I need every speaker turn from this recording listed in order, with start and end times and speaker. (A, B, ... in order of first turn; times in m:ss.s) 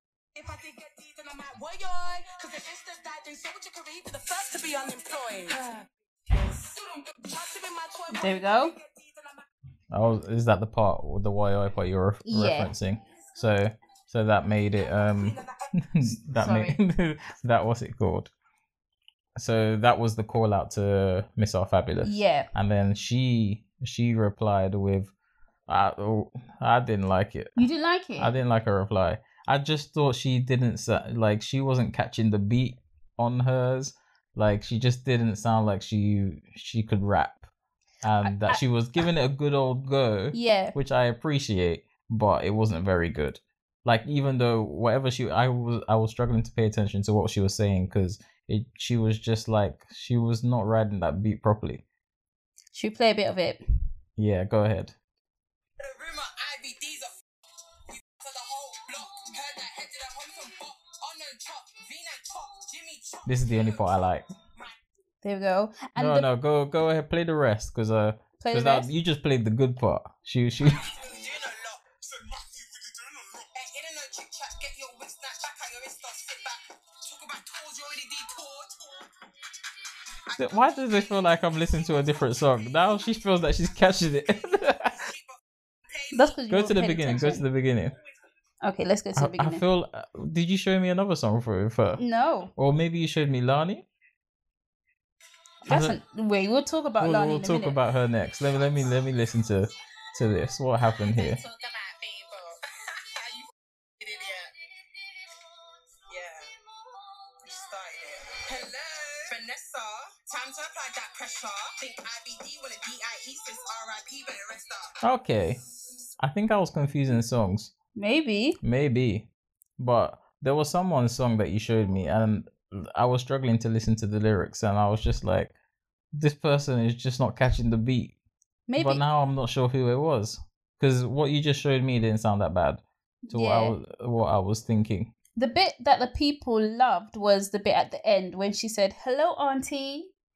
0:00.4-0:09.4 A
0:08.1-0:08.7 B
0:09.9-0:18.3 C
0:12.3-0:12.7 B
0:14.9-0:15.5 A
0:16.4-0:16.8 B
0:19.4-0:25.1 C
0:22.0-0:22.5 B
0:25.7-0:27.7 C
0:27.6-0:28.4 B
0:28.2-0:37.5 C
0:38.0-0:51.8 C
0:38.2-0:38.6 B
0:40.3-0:40.8 B
0:52.7-0:53.6 B
0:54.2-0:55.0 C
0:55.8-0:57.1 A
0:57.9-1:04.7 A
1:03.3-1:04.3 C
1:05.2-1:06.3 B
1:06.0-1:10.9 C
1:08.4-1:08.9 B
1:10.6-1:19.1 A
1:20.3-1:23.1 A
1:20.4-1:25.1 C
1:24.6-1:25.3 A
1:25.9-1:26.4 A
1:26.1-1:27.4 B
1:26.5-1:28.0 C
1:28.6-1:29.6 B
1:29.2-1:32.0 C
1:32.0-1:32.5 B
1:32.6-1:33.8 C
1:35.7-1:37.8 B
1:35.7-1:36.0 C
1:37.0-1:41.4 C
1:41.1-1:43.5 A
1:44.0-1:44.5 A
1:46.1-1:46.5 A
1:47.4-1:55.0 A
1:55.0-1:55.6 C
1:56.2-1:57.7 C
1:58.0-1:58.6 B
1:58.6-1:59.3 C
1:59.8-2:05.5 C
2:06.1-2:08.2 C
2:08.7-2:09.0 B
2:08.8-2:15.1 C
2:13.3-2:13.8 B
2:15.4-2:20.1 B